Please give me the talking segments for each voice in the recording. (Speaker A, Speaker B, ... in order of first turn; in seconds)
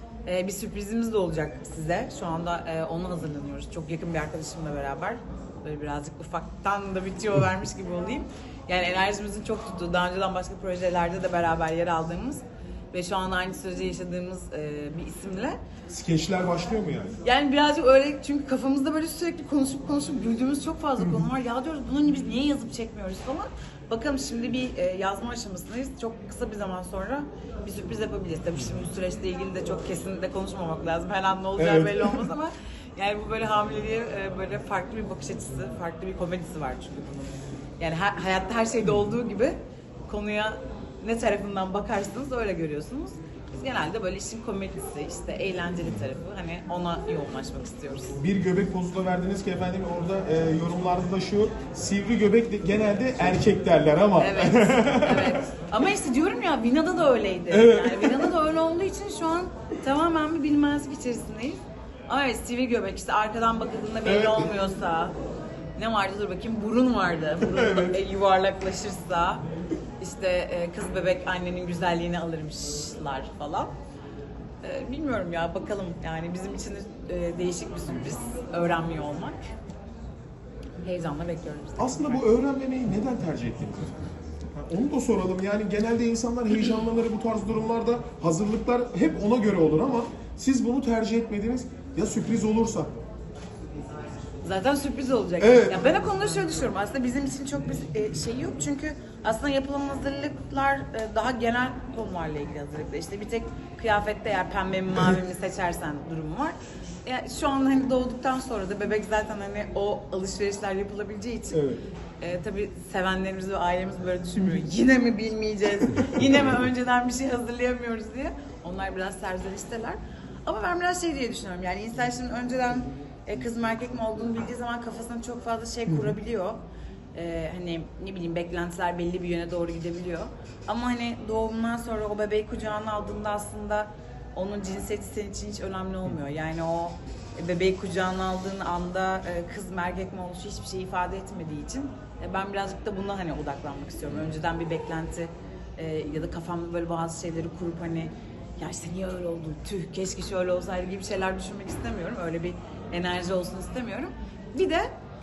Speaker A: 0.2-15.6, 17.2-48.2, 54.2-65.1, 65.8-69.4, 70.0-73.7, 74.6-79.4, 80.8-82.2, 94.4-111.6, 112.2-126.6, 127.1-154.9
Speaker B: 15.9-17.2, 31.6-32.3, 48.2-55.4, 57.5-58.3, 64.0-64.5, 67.4-68.0, 81.8-92.9, 95.4-95.8, 111.5-111.8